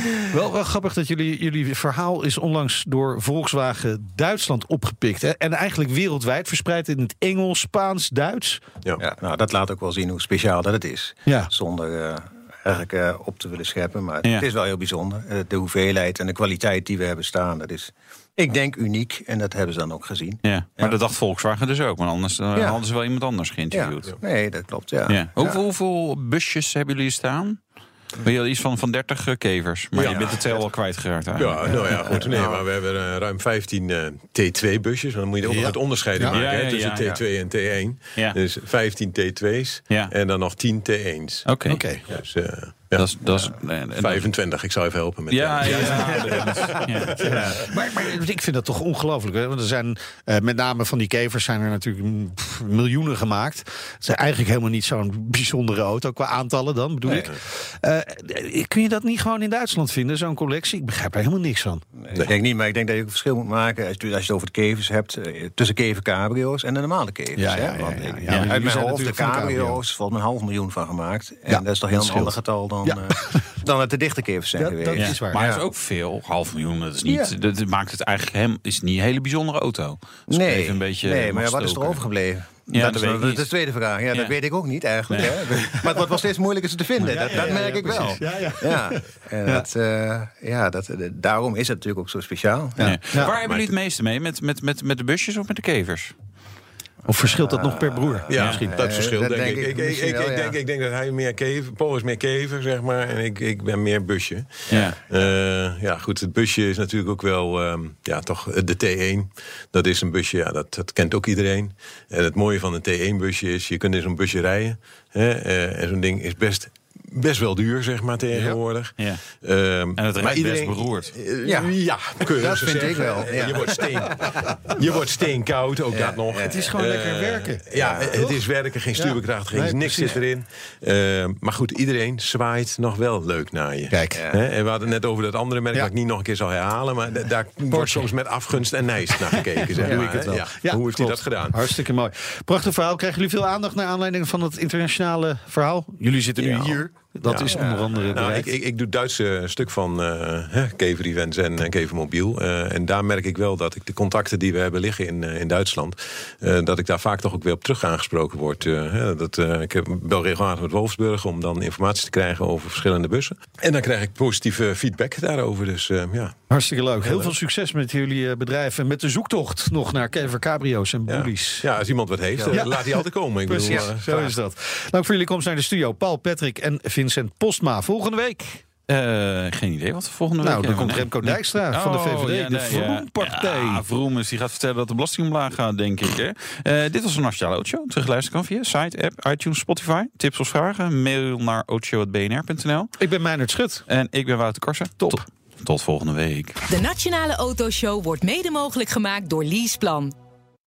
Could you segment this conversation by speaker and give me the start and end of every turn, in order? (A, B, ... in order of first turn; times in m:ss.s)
0:00.3-0:08.6 A
0:09.0-0:21.0 B
0:11.3-0:11.5 A
0:14.2-0:14.5 C
0:20.4-0:24.1 C
0:22.6-0:22.8 B
0:23.7-0:25.6 B
0:25.1-0:27.6 C
0:28.2-0:32.0 C
0:30.0-0:30.4 A
0:30.0-0:30.7 B
0:30.0-0:30.3 D
0:31.4-0:41.4 D
0:31.8-0:32.7 B
0:35.5-0:36.4 A
0:36.3-0:37.3 C
0:41.4-0:41.8 C
0:41.7-0:42.0 A
0:42.1-0:47.6 D
0:42.9-0:44.3 C
0:45.3-0:47.3 C
0:45.6-1:01.8 A
0:57.0-0:57.4 D
1:02.0-1:15.6 B
1:07.3-1:09.8 A
1:11.5-1:13.5 A
1:14.6-1:15.4 A
1:15.0-1:22.0 C
1:17.0-1:17.3 B
1:20.3-1:33.7 B
1:22.7-1:23.5 C
1:25.1-1:25.4 C
1:25.2-1:26.2 A
1:27.0-1:28.2 C
1:27.0-1:29.7 A
1:32.8-1:33.3 A
1:32.8-1:36.1 C
1:37.0-1:38.9 A
1:37.1-1:40.6 B
1:38.3-2:21.6 D
1:38.4-1:38.6 C
1:44.7-1:45.0 C
1:58.4-1:59.2 C
2:00.0-2:01.1 C
2:01.4-2:04.8 B
2:05.9-2:06.7 B
2:06.4-2:08.4 A
2:07.7-2:08.3 B
2:09.0-2:10.2 A
2:13.9-2:14.3 A
2:14.1-2:14.4 B
2:17.7-2:18.1 A
2:19.1-2:28.5 A
2:19.7-2:20.4 B
2:26.4-2:26.8 B
2:27.3-2:46.4 D
2:27.4-2:28.4 B
2:46.5-2:51.7 A
2:47.0-2:47.3 D
2:51.1-2:54.3 D
2:52.3-2:53.0 B
2:52.5-2:58.6 A
2:53.6-2:53.9 B
2:58.9-3:12.9 C
3:00.4-3:03.8 A
3:13.0-3:13.8 A
3:13.9-3:16.6 C
3:16.7-3:20.1 E